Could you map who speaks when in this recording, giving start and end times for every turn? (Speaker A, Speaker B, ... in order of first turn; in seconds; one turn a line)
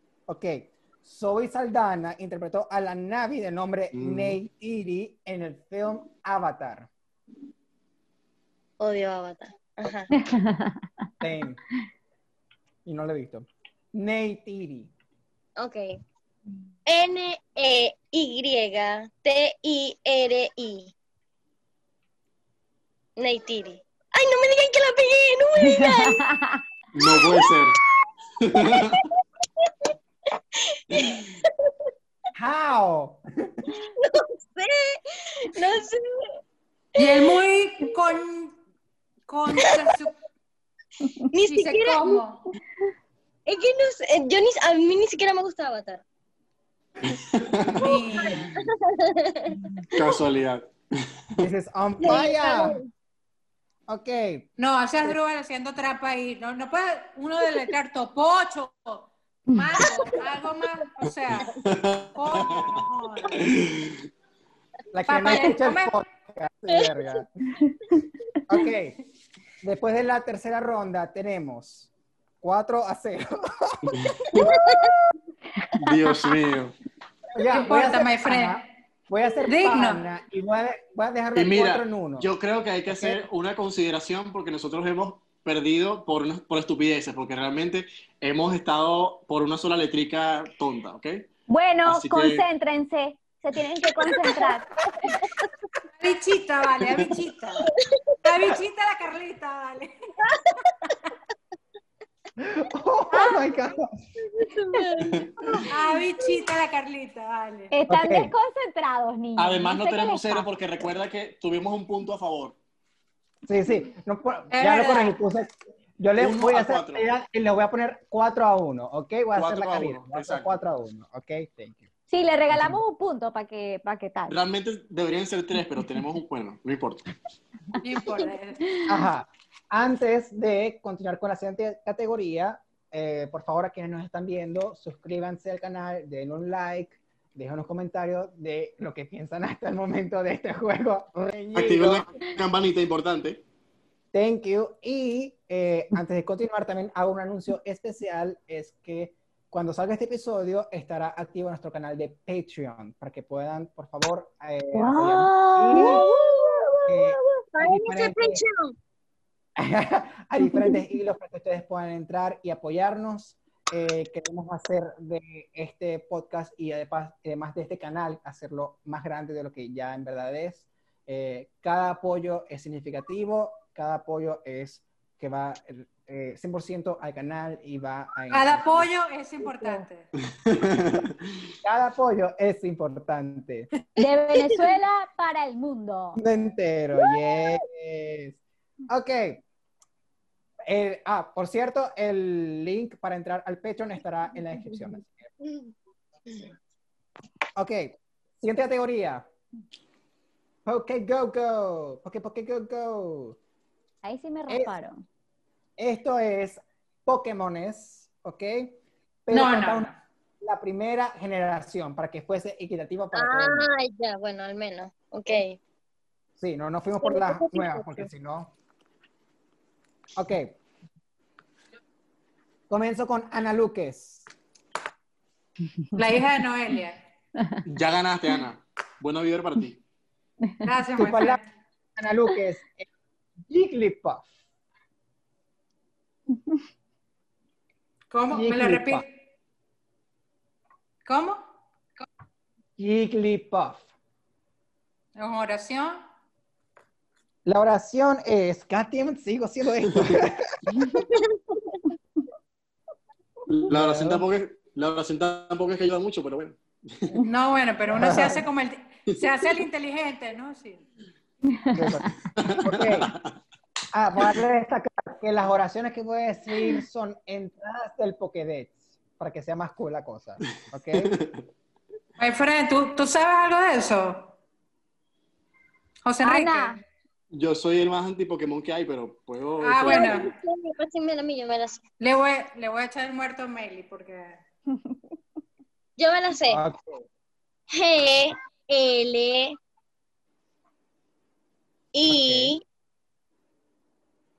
Speaker A: 0.3-6.9
Speaker B: 3.9-4.4
Speaker C: 8.8-10.1
Speaker D: 10.1-10.9
Speaker A: 11.2-11.6
Speaker A: 12.8-14.9
Speaker C: 15.6-15.9
Speaker C: 16.9-20.9
Speaker C: 23.2-26.2
Speaker D: 25.7-26.6
Speaker B: 26.9-27.8
Speaker C: 27.0-27.6
Speaker B: 28.4-29.0
Speaker C: 28.6-29.9
Speaker C: 30.6-31.7
Speaker A: 32.3-33.7
Speaker C: 33.7-36.4
Speaker C: 36.9-37.4
Speaker E: 37.0-38.5
Speaker E: 39.3-40.2
Speaker C: 39.6-39.9
Speaker C: 41.3-42.2
Speaker E: 41.4-42.4
Speaker C: 43.5-46.0
Speaker B: 47.0-47.9
Speaker C: 47.8-50.1
Speaker E: 47.8-48.5
Speaker B: 49.9-51.1
Speaker A: 51.4-52.8
Speaker C: 52.0-52.8
Speaker A: 53.9-54.5
Speaker E: 54.6-61.5
Speaker C: 59.8-60.1
Speaker B: 61.3-62.7
Speaker E: 62.1-63.5
Speaker B: 63.4-64.0
Speaker A: 64.9-67.3
Speaker E: 65.1-66.0
Speaker A: 68.5-69.0
Speaker A: 69.6-74.9
Speaker B: 73.9-74.5
Speaker C: 74.3-75.0
Speaker D: 75.6-76.2
Speaker B: 75.8-76.7
Speaker A: 77.3-82.3
Speaker E: 77.5-78.6
Speaker E: 79.5-80.0
Speaker B: 81.3-91.3
Speaker A: 82.9-83.2
Speaker D: 91.5-94.7
Speaker B: 91.8-92.4
Speaker C: 95.1-95.5
Speaker E: 96.0-97.7
Speaker E: 98.2-99.9
Speaker C: 100.2-100.5
Speaker A: 102.4-104.0
Speaker C: 104.2-106.0
Speaker B: 105.0-105.3
Speaker E: 105.7-107.7
Speaker D: 107.7-110.5
Speaker A: 107.9-108.3
Speaker B: 109.4-112.6
Speaker A: 113.5-121.8
Speaker E: 114.5-115.2
Speaker B: 116.2-117.0
Speaker B: 119.3-120.5
Speaker D: 122.1-124.4
Speaker B: 124.3-127.0
Speaker E: 127.8-128.8
Speaker A: 128.9-142.2
Speaker B: 141.5-143.4
Speaker A: 144.1-156.1
Speaker D: 154.7-156.5
Speaker C: 155.7-156.7
Speaker A: 156.8-158.4
Speaker C: 157.5-158.7
Speaker A: 159.6-178.9
Speaker E: 178.3-180.1
Speaker B: 180.4-181.1
Speaker A: 181.6-183.7
Speaker D: 184.0-186.2
Speaker A: 186.2-189.4
Speaker C: 187.1-187.4
Speaker A: 190.7-195.3
Speaker A: 197.5-199.3
Speaker A: 200.6-203.4
Speaker D: 204.0-205.0
Speaker A: 204.5-204.8
Speaker A: 205.8-209.9
Speaker E: 209.3-209.9
Speaker A: 210.4-213.7
Speaker C: 213.1-215.6
Speaker A: 216.4-218.5
Speaker C: 217.0-218.1
Speaker A: 220.2-220.6
Speaker A: 222.7-224.3
Speaker E: 225.9-227.0
Speaker B: 227.7-229.8
Speaker E: 230.6-231.4
Speaker A: 230.9-231.4
Speaker A: 231.9-232.9
Speaker A: 233.5-234.3
Speaker E: 238.1-239.1
Speaker A: 238.3-239.0
Speaker E: 241.1-241.4
Speaker A: 242.8-243.9
Speaker E: 245.2-246.0
Speaker A: 247.4-250.9
Speaker C: 250.9-251.6
Speaker B: 253.5-257.1
Speaker A: 253.7-254.2
Speaker E: 257.2-260.8
Speaker A: 257.9-258.4
Speaker D: 261.5-262.0
Speaker A: 261.7-263.1
Speaker B: 262.4-263.3
Speaker A: 263.9-271.1
Speaker B: 270.9-271.4
Speaker E: 272.2-274.3
Speaker E: 276.0-276.8
Speaker D: 276.2-276.8
Speaker B: 277.3-280.1
Speaker E: 279.6-280.3
Speaker C: 279.9-281.8
Speaker E: 282.0-284.4
Speaker C: 286.0-286.6
Speaker A: 286.5-287.0
Speaker C: 287.7-289.6
Speaker C: 291.9-292.6
Speaker A: 292.1-292.6